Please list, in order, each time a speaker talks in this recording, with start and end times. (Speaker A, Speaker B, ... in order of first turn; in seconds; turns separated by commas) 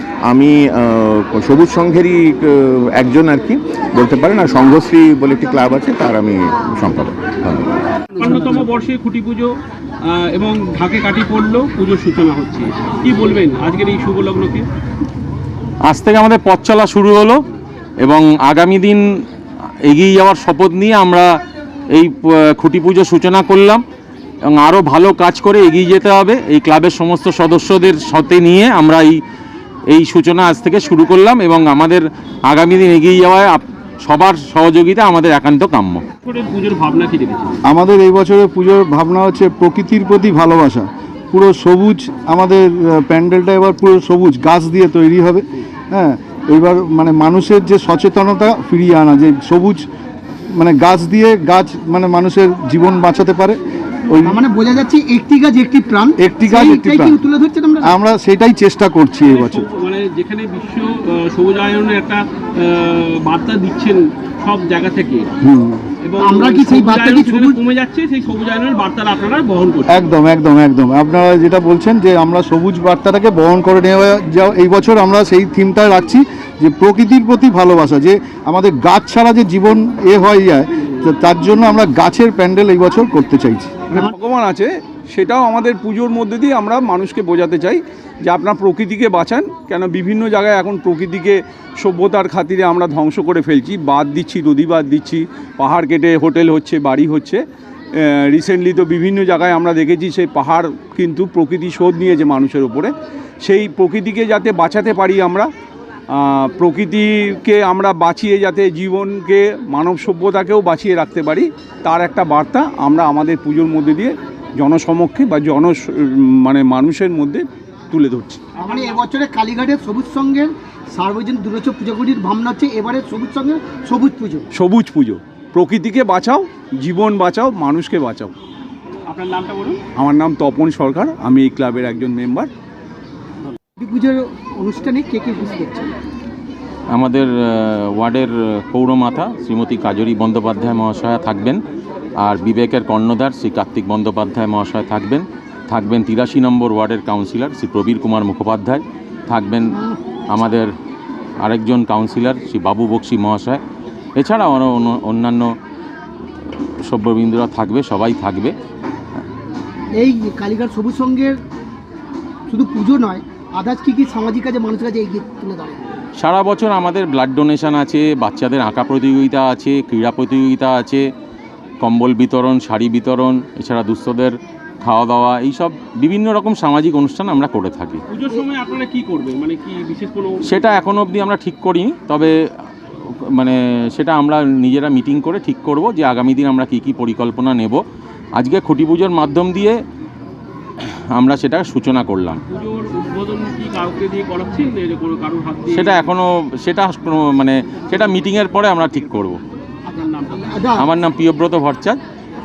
Speaker A: 0.3-7.7, Speaker B: 8.2-9.5, Speaker B: 10.2-14.7, Speaker C: 15.9-17.4, Speaker C: 18.0-19.0, Speaker C: 19.9-21.3, Speaker C: 21.9-23.8, Speaker C: 24.5-29.2, Speaker C: 29.9-36.0, Speaker B: 36.2-37.5, Speaker D: 37.7-49.9, Speaker D: 50.5-54.4, Speaker E: 54.2-58.0, Speaker D: 56.2-57.2, Speaker D: 57.8-59.7, Speaker B: 59.2-65.3, Speaker D: 65.4-65.9, Speaker B: 66.0-70.0, Speaker E: 66.2-67.6, Speaker D: 69.9-83.9, Speaker F: 83.9-97.4, Speaker F: 98.0-105.5, Speaker F: 106.1-118.4, Speaker E: 118.6-124.5, Speaker B: 118.6-119.0, Speaker F: 124.5-128.4, Speaker B: 129.1-129.8, Speaker F: 130.0-132.5, Speaker E: 133.8-135.9, Speaker C: 136.9-141.6, Speaker C: 142.2-149.8, Speaker C: 150.3-150.7, Speaker C: 151.4-153.6, Speaker C: 154.2-155.5, Speaker C: 156.9-158.6, Speaker E: 160.0-161.4, Speaker E: 162.5-165.9, Speaker C: 166.2-171.0, Speaker C: 171.8-178.0, Speaker B: 178.1-180.6, Speaker C: 180.5-182.3, Speaker C: 183.3-187.8, Speaker C: 188.4-189.8, Speaker C: 190.8-192.4, Speaker B: 192.5-196.1, Speaker C: 195.7-199.4, Speaker B: 199.9-200.6, Speaker E: 200.5-200.9, Speaker C: 200.8-202.0